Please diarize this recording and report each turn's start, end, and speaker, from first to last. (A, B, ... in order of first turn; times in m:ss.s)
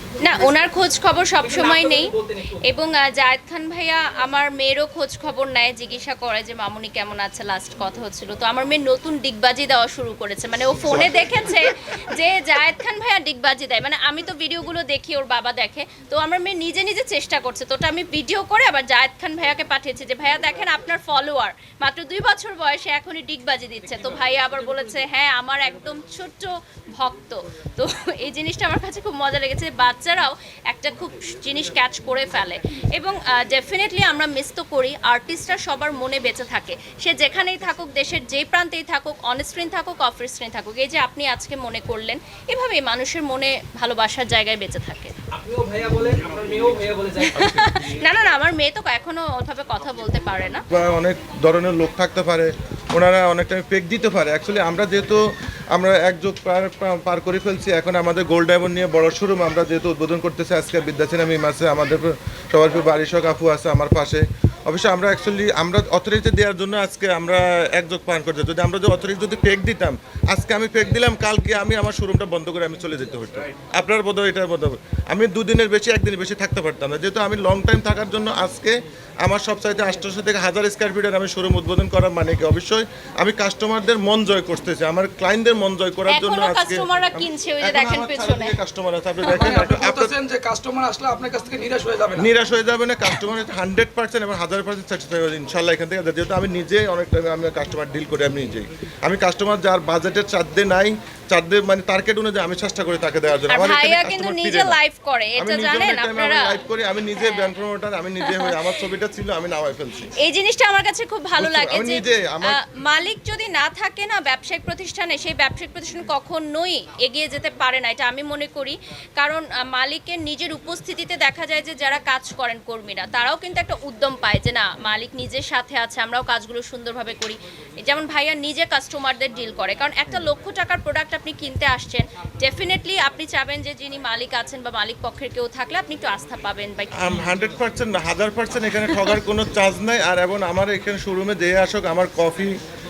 0:00.2-0:02.1 A
0:01.4-0:02.7 B
0:02.6-0:45.1 A
0:10.8-0:11.5 C
0:45.3-0:47.8 B
0:47.3-0:50.6 A
0:50.7-1:30.1 C
1:26.1-1:28.5 A
1:29.3-1:32.3 D
1:32.2-1:44.8 C
1:43.5-1:46.6 A
1:45.4-1:50.1 C
1:47.2-1:47.5 A
1:48.2-1:48.6 A
1:50.2-2:17.1 A
1:51.4-1:52.6 C
2:17.0-2:22.5 C